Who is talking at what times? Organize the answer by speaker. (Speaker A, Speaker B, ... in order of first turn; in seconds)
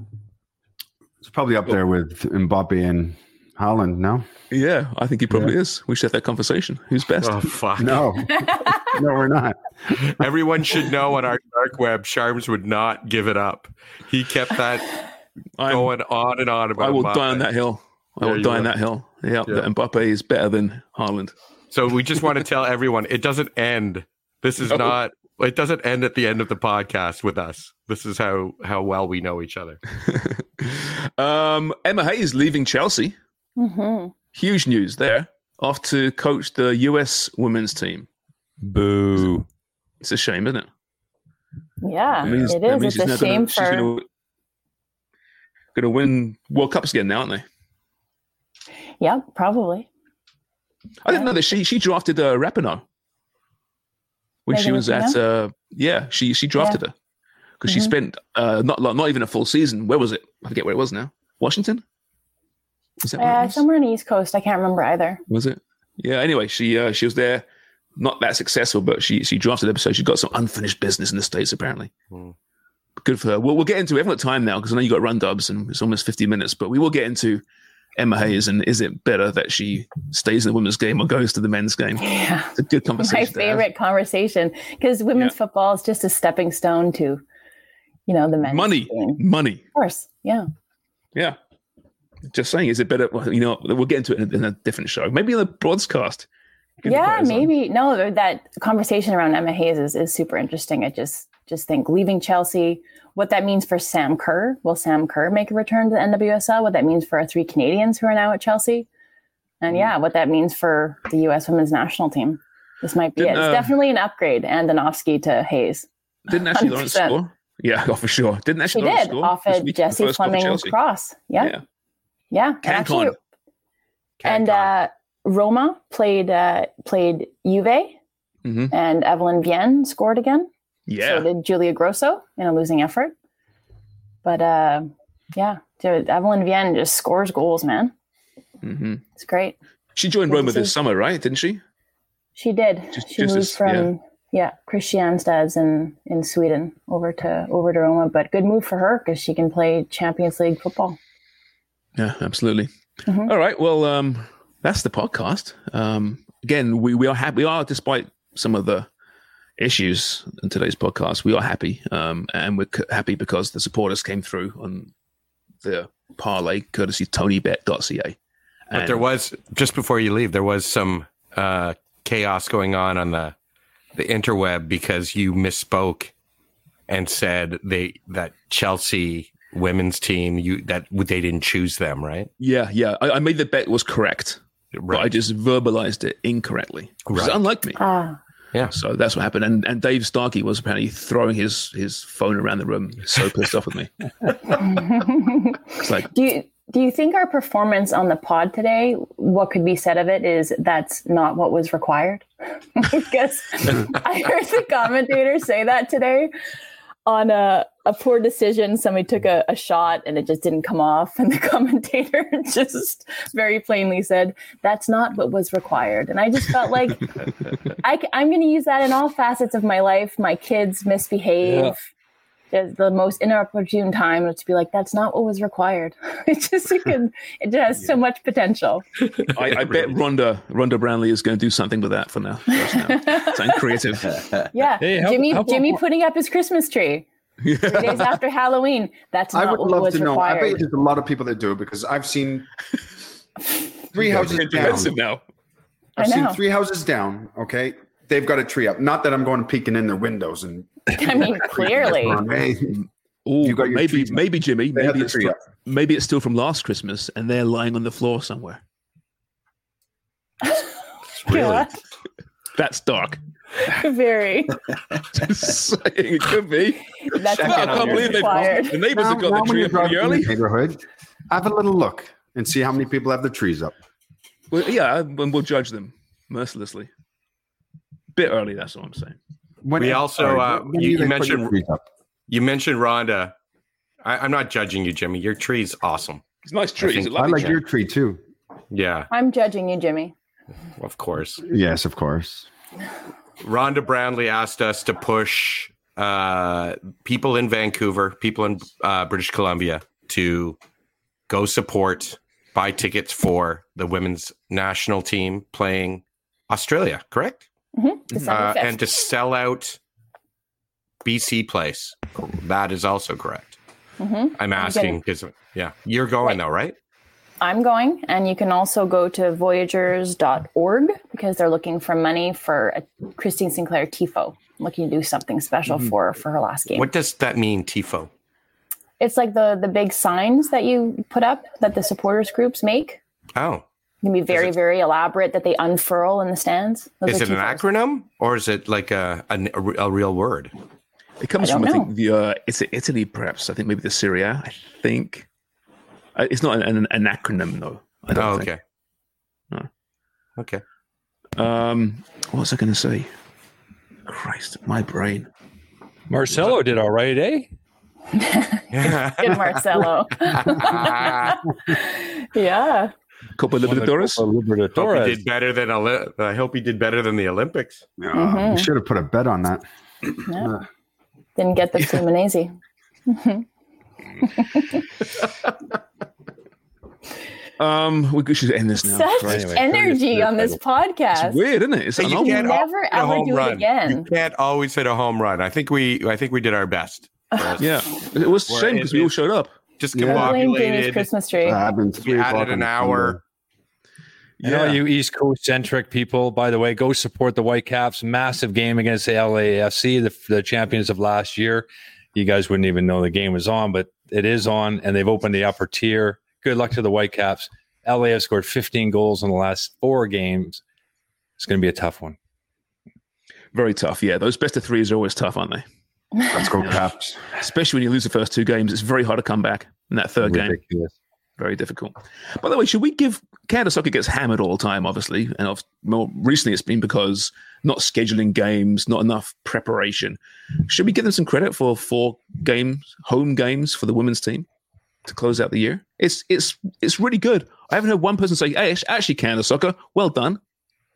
Speaker A: 1.2-4.3, 7.8-9.6, 239.3-242.5, 243.9-244.9, 246.2-252.8, 253.4-255.3, 268.9-273.7, 279.6-281.8, 287.1-288.2, 291.4-292.5, 368.0-369.6, 389.9-390.4, 391.4-393.2, 416.3-417.2
Speaker B: 4.5-7.5, 15.6-15.9, 16.8-21.3, 24.6-25.0, 30.1-33.2, 34.3-38.1, 40.0-40.7, 42.2-44.0, 45.7-47.5, 51.0-52.8, 54.5-56.9, 57.6-61.8, 63.0-63.6, 65.3-67.5, 68.0-71.9, 73.0-77.4, 78.0-83.7, 88.4-89.6, 92.3-96.3, 96.8-97.5, 113.2-113.7, 116.3-120.7, 122.6-123.2, 128.4-128.7, 130.9-131.3, 138.6-139.0, 139.9-141.6, 142.9-143.9, 151.9-152.7, 153.2-158.9, 159.6-164.9, 165.6-168.2, 168.7-169.1, 182.4-187.8, 188.7-193.9, 195.8-196.1, 229.3-234.2, 237.4-238.2, 243.9-245.2, 246.0-246.3, 253.3-258.6, 262.6-263.2, 265.1-270.3, 274.5-276.9, 278.1-279.2, 286.4-287.6, 341.2-345.3, 346.2-348.5, 351.4-353.1, 354.1-355.3, 363.4-364.2, 377.6-379.7, 381.1-382.6, 387.6-389.5, 394.4-394.8, 413.5-415.6, 416.6-420.6, 421.4-434.4, 435.1-440.4
Speaker C: 7.2-8.1, 9.9-15.0, 15.7-17.5, 18.2-18.7, 21.7-29.8, 124.2-124.7, 168.7-173.3, 173.9-176.1, 176.9-182.3, 184.7-185.1, 187.1-187.4, 267.3-268.4, 279.8-281.5, 282.3-283.3, 284.0-286.2, 286.8-287.6, 288.7-289.1, 290.8-291.4, 293.4-300.6, 301.3-307.5, 308.2-309.8, 311.0-313.6, 314.4-316.8, 326.7-328.1, 333.3-333.6, 337.1-340.5, 348.1-348.6, 350.4-350.6, 358.7-359.6, 360.3-361.4, 364.7-367.8, 382.0-389.2, 389.8-391.1, 392.0-393.2
Speaker D: 33.6-34.1, 41.8-43.9, 49.0-49.9, 54.5-55.2, 57.7-57.9, 63.2-65.2, 82.0-87.2, 88.1-89.2, 89.7-90.5, 96.8-108.9, 109.6-117.2, 118.7-121.5, 122.3-123.2, 124.2-128.0, 128.7-130.5, 131.0-133.1, 134.2-137.9, 139.2-139.6, 140.3-140.7, 142.4-151.0, 153.1-153.3, 187.8-188.2, 194.6-206.3, 207.1-217.1, 217.8-221.7, 222.5-228.8, 232.5-233.6, 234.5-237.1, 237.7-240.6, 246.0-246.4, 250.9-252.2, 261.2-261.7, 263.6-264.6, 267.1-268.8, 289.1-290.1, 307.8-308.8, 314.0-315.0, 317.4-326.9, 329.0-333.0, 334.0-337.6, 341.4-341.9, 358.1-362.9, 368.1-368.7, 370.3-370.6, 371.4-372.5, 373.1-373.4, 374.2-374.8, 378.8-381.4, 382.2-384.1, 390.1-391.6
Speaker E: 38.6-39.5, 221.4-221.7, 234.8-235.8, 356.1-357.5, 363.6-365.2, 379.3-380.6, 394.4-410.6, 411.4-412.2, 420.2-420.9